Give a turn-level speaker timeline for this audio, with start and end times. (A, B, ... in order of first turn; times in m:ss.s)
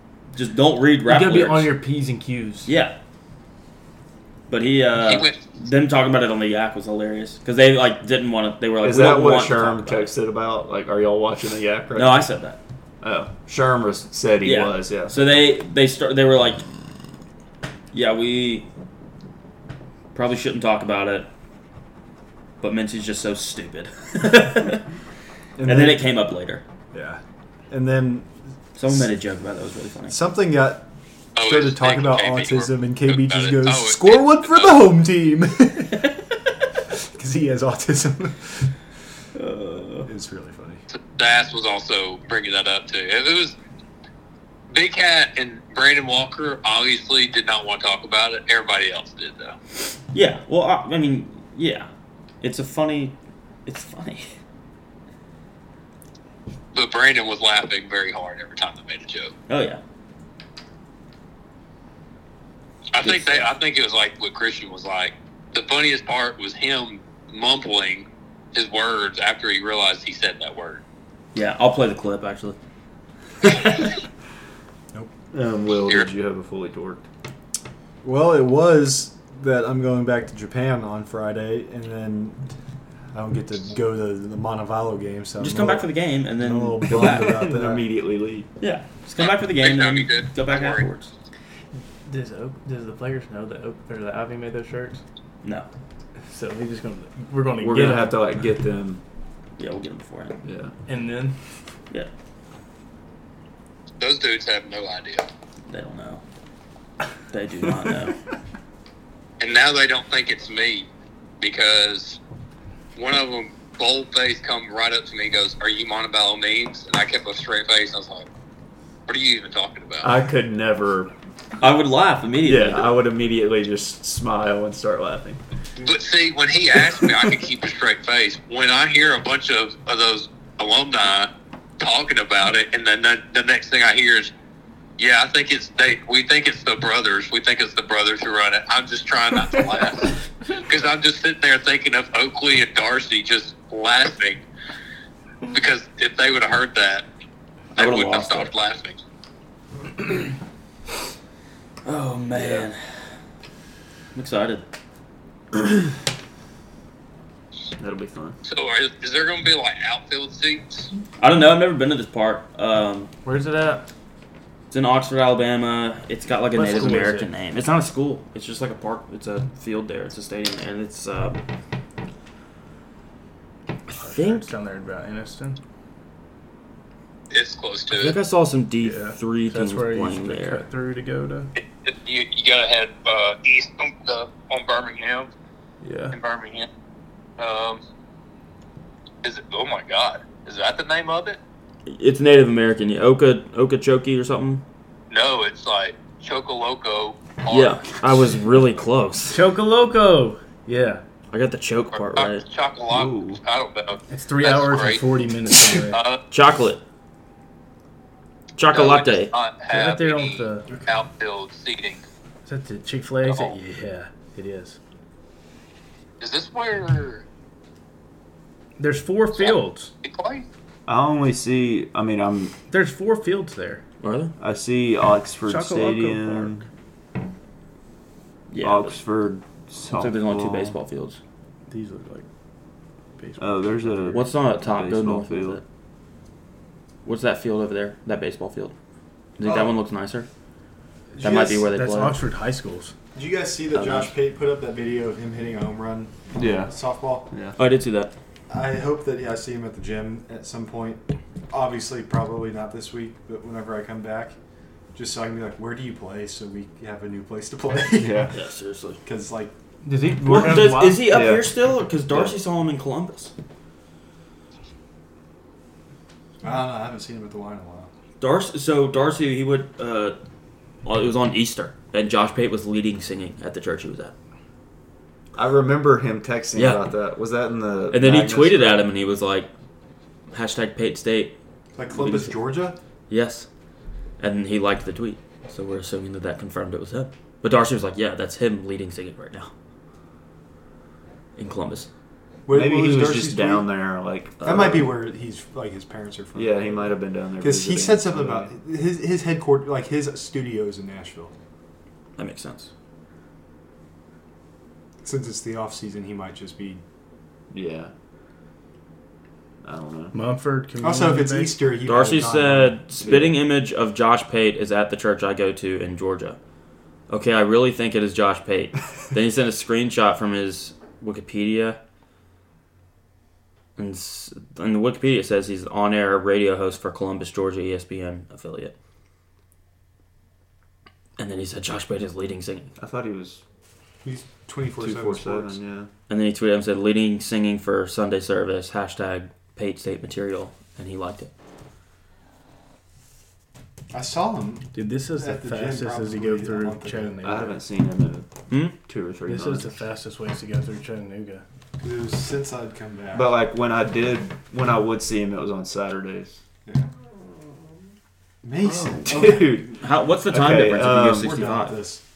0:00.3-0:01.7 A
0:01.0-0:02.7 B
0:02.7-0:02.9 A
0:04.5-0:10.1 A
0:05.0-0:05.4 C
0:08.8-0:12.3 D
0:12.0-0:12.6 A
0:13.0-0:15.1 D
0:14.4-0:16.7 A
0:17.9-0:18.7 A
0:20.1-0:21.3 A
0:22.6-0:24.8 A
0:25.6-0:26.0 E
0:25.6-0:26.6 A
0:26.9-0:28.3 E
0:28.8-0:30.2 A
0:30.1-0:36.2 E
0:31.4-0:34.8 C
0:36.9-0:38.7 E
0:39.4-0:40.1 A
0:40.0-0:40.8 E
0:40.9-0:43.6 C
0:44.7-0:49.6 C
0:50.1-0:51.9 A
0:52.4-0:54.3 A
0:56.7-0:59.3 C
0:59.5-0:59.8 A
1:02.9-1:10.8 C
1:03.0-1:03.5 A
1:11.3-1:12.6 A
1:13.4-1:13.8 A
1:15.3-1:17.0 D
1:18.0-1:22.4 E
1:23.1-1:27.8 E
1:25.4-1:27.4 A
1:26.9-1:28.5 D
1:28.6-1:31.1 A
1:29.2-1:30.9 C
1:32.1-1:35.0 B
1:36.3-1:38.2 B
1:37.6-1:39.0 D
1:39.6-1:40.4 A
1:40.4-1:40.7 D
1:40.9-1:41.4 B
1:44.0-1:45.3 C
1:45.7-1:46.2 A
1:47.3-1:48.2 A
1:49.4-1:50.9 C
1:51.4-1:52.2 C
1:53.0-1:58.3 C
1:59.1-2:00.1 C
2:00.0-2:01.1 D
2:01.6-2:02.9 A
2:02.4-2:05.4 D
2:05.8-2:11.3 C
2:11.8-2:14.3 C
2:15.0-2:24.4 C
2:25.5-2:27.0 C
2:27.7-2:28.5 A
2:27.8-2:29.0 C
2:31.8-2:33.2 A
2:32.3-2:32.6 D
2:34.1-2:34.6 A
2:37.8-2:38.4 D
2:38.4-2:40.9 C
2:41.2-2:43.1 A
2:43.2-2:43.8 B
2:44.7-2:51.4 A
2:46.5-2:47.3 B
2:53.9-2:54.4 A
2:54.0-2:55.6 B
2:57.3-2:58.2 C
2:57.9-3:00.6 A
2:58.8-3:01.5 B
3:01.6-3:05.3 C
3:05.8-3:06.2 B
3:06.1-3:06.7 C
3:07.4-3:07.8 C
3:09.2-3:11.4 C
3:11.8-3:14.6 A
3:15.1-3:17.9 C
3:17.5-3:19.4 A
3:19.3-3:21.0 B
3:21.3-3:22.4 A
3:21.9-3:25.1 C
3:22.9-3:23.4 D
3:24.1-3:26.0 B
3:25.6-3:26.2 C
3:26.3-3:26.8 A
3:28.6-3:29.3 A
3:28.7-3:32.0 C
3:29.7-3:30.8 B
3:32.4-3:34.8 B
3:33.2-3:33.6 C
3:36.2-3:37.2 C
3:38.8-3:39.9 B
3:39.3-3:40.4 C
3:40.9-3:42.5 D
3:42.7-3:43.8 B
3:44.0-3:44.3 A
3:44.4-3:46.7 D
3:45.4-3:46.6 B
3:48.5-3:49.0 A
3:48.6-3:50.8 D
3:49.9-3:51.2 A
3:51.7-3:52.2 B
3:53.2-3:54.2 B
3:53.4-3:55.6 D
3:54.1-3:55.6 A
3:57.0-3:58.7 A
3:59.4-4:00.3 A
3:59.4-3:59.8 E
4:01.2-4:01.7 E
4:01.2-4:02.2 A
4:01.6-4:02.9 B
4:03.1-4:07.3 E
4:03.7-4:04.1 A
4:06.3-4:06.7 D
4:07.3-4:07.6 D
4:07.6-4:08.1 A
4:08.5-4:14.3 E
4:14.9-4:18.3 E
4:18.0-4:18.3 D
4:18.3-4:19.0 A
4:19.0-4:19.5 E
4:19.8-4:21.0 B
4:20.2-4:23.3 A
4:21.1-4:21.5 D
4:22.1-4:22.4 D
4:26.4-4:27.9 E
4:28.2-4:30.2 A
4:30.8-4:34.1 A
4:35.3-4:38.9 D
4:36.6-4:36.8 A
4:37.9-4:39.5 A
4:40.3-4:41.4 A
4:41.8-4:42.8 E
4:41.9-4:42.3 A
4:43.1-4:43.5 A
4:44.2-4:49.5 A
4:51.4-4:51.9 A
4:52.4-4:53.7 E
4:52.5-4:54.9 D
4:54.4-5:01.3 E
4:56.3-4:58.5 D
5:02.2-5:02.7 A
5:05.0-5:06.8 E
5:07.5-5:07.9 D
5:09.6-5:10.2 D
5:10.1-5:11.6 B
5:10.8-5:12.8 E
5:11.8-5:16.4 A
5:13.0-5:13.3 D
5:17.1-5:21.8 A
5:23.8-5:28.7 A
5:31.2-5:32.7 A
5:32.8-5:33.4 D
5:34.0-5:35.6 E
5:34.8-5:35.9 D
5:36.1-5:41.3 A
5:43.9-5:47.2 E
5:44.7-5:47.6 B
5:47.2-5:48.3 D
5:48.5-5:48.8 A
5:48.8-5:49.7 D
5:49.3-5:51.4 B
5:51.8-5:53.3 E
5:53.1-5:56.4 D
5:58.4-5:59.8 E
5:58.7-6:01.8 A
5:59.0-6:01.3 D
6:00.8-6:02.0 E